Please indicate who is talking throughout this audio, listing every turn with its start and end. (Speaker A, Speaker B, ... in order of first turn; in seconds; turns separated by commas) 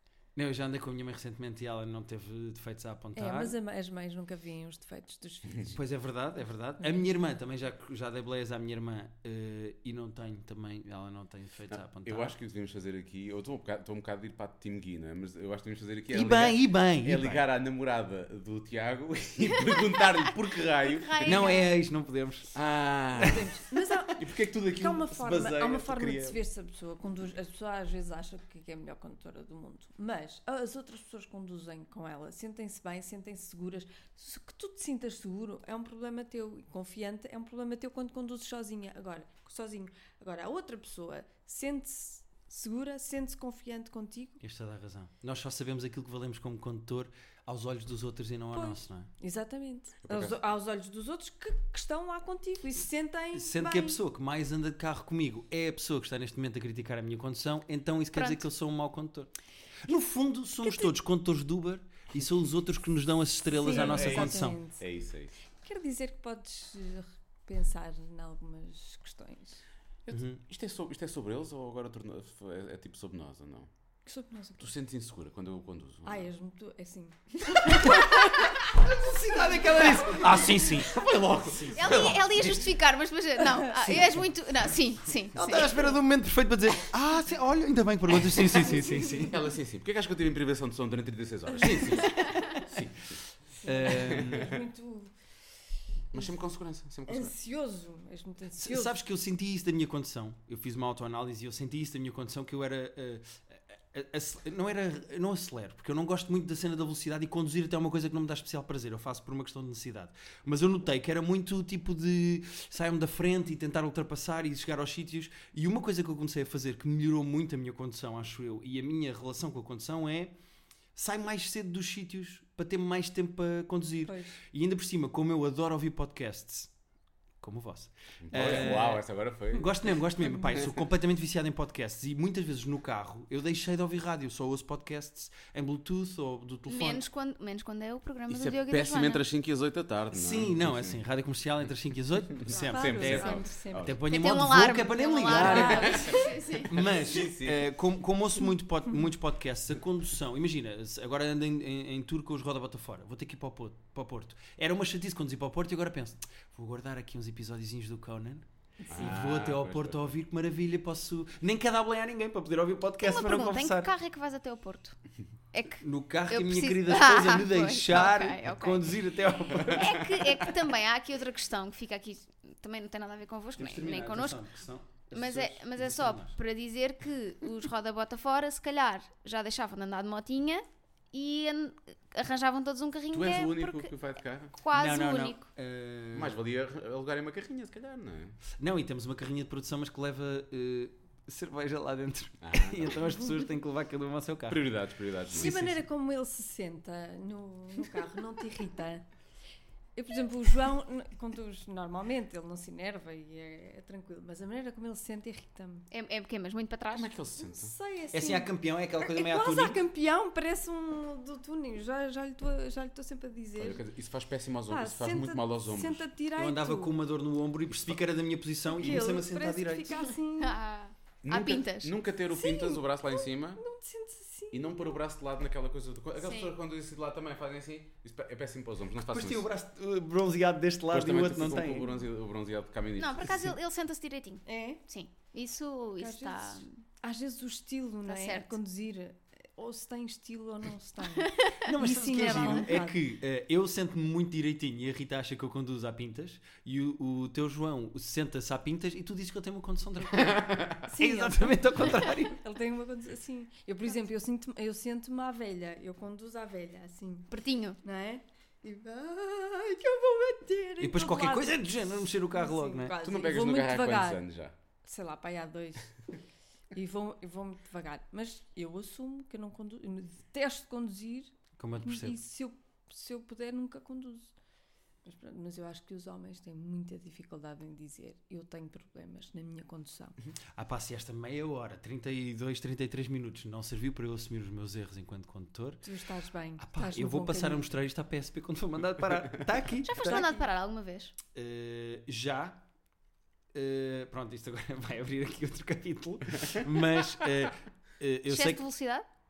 Speaker A: 0.3-3.5, Speaker B: 3.1-5.8, Speaker A: 5.7-12.3, Speaker C: 11.7-21.6, Speaker A: 16.1-17.4, Speaker D: 19.4-21.7, Speaker A: 21.2-22.5, Speaker C: 22.5-23.5, Speaker B: 23.2-44.4, Speaker C: 24.1-26.4, Speaker A: 44.4-49.1, Speaker B: 48.5-54.0, Speaker C: 50.0-50.4, Speaker A: 53.3-59.3, Speaker D: 58.1-58.4, Speaker A: 59.9-64.6, Speaker B: 63.6-64.9, Speaker C: 63.7-65.4, Speaker B: 65.6-69.6, Speaker C: 70.0-73.7, Speaker A: 70.1-70.4, Speaker B: 74.0-74.7, Speaker C: 74.6-76.3, Speaker B: 76.0-78.5, Speaker A: 78.8-81.0, Speaker C: 79.2-82.7, Speaker A: 81.5-82.1, Speaker D: 81.7-85.9, Speaker A: 85.3-89.4, Speaker B: 88.6-89.2, Speaker C: 89.2-93.2, Speaker D: 91.8-92.6, Speaker A: 92.7-94.6, Speaker B: 93.6-95.1, Speaker C: 93.9-94.6, Speaker C: 96.1-97.3, Speaker B: 97.0-99.0, Speaker A: 98.6-120.3, Speaker A: 121.0-126.7, Speaker B: 124.1-124.3, Speaker A: 127.4-137.0, Speaker C: 128.2-129.9, Speaker B: 128.4-128.6, Speaker D: 136.7-139.2, Speaker C: 138.3-141.0, Speaker A: 140.1-163.9, Speaker C: 142.4-144.0, Speaker B: 142.5-143.9, Speaker D: 144.1-146.7, Speaker B: 145.3-146.5, Speaker C: 145.7-147.6, Speaker B: 158.8-159.1, Speaker C: 158.9-160.0, Speaker D: 163.0-165.0, Speaker D: 165.5-169.0, Speaker A: 165.8-170.2, Speaker D: 169.6-174.4, Speaker A: 173.6-176.3, Speaker D: 175.1-183.9, Speaker C: 183.1-184.6, Speaker D: 184.6-185.5, Speaker A: 184.7-186.3, Speaker C: 186.1-188.4, Speaker A: 188.5-194.7, Speaker C: 192.4-193.1, Speaker C: 194.5-195.7, Speaker B: 195.3-199.1, Speaker A: 195.3-195.8, Speaker B: 199.9-205.8, Speaker D: 205.9-207.1, Speaker C: 206.9-207.7, Speaker B: 207.4-213.8, Speaker A: 208.1-209.8, Speaker C: 213.6-216.1, Speaker B: 214.7-216.9, Speaker A: 216.3-220.0, Speaker B: 218.6-220.6, Speaker D: 220.3-221.9, Speaker C: 221.2-223.6, Speaker B: 222.3-225.0, Speaker C: 224.5-229.5, Speaker D: 226.2-226.5, Speaker A: 229.0-231.9, Speaker C: 230.9-233.5, Speaker D: 233.0-236.7, Speaker B: 234.5-234.8, Speaker B: 236.0-243.0, Speaker D: 238.1-238.6, Speaker D: 241.2-242.7, Speaker A: 241.6-252.4, Speaker C: 250.4-250.7, Speaker B: 250.8-257.3, Speaker D: 257.3-257.8, Speaker B: 257.8-264.2, Speaker A: 260.8-263.0, Speaker C: 263.0-264.5, Speaker B: 264.8-266.2, Speaker B: 266.7-274.3, Speaker A: 271.6-272.2, Speaker B: 275.0-280.2, Speaker A: 280.6-285.9, Speaker B: 285.8-287.7, Speaker A: 286.6-290.3, Speaker D: 289.9-291.1, Speaker B: 289.9-290.5, Speaker A: 291.3-292.6, Speaker A: 293.5-298.6, Speaker D: 298.3-299.0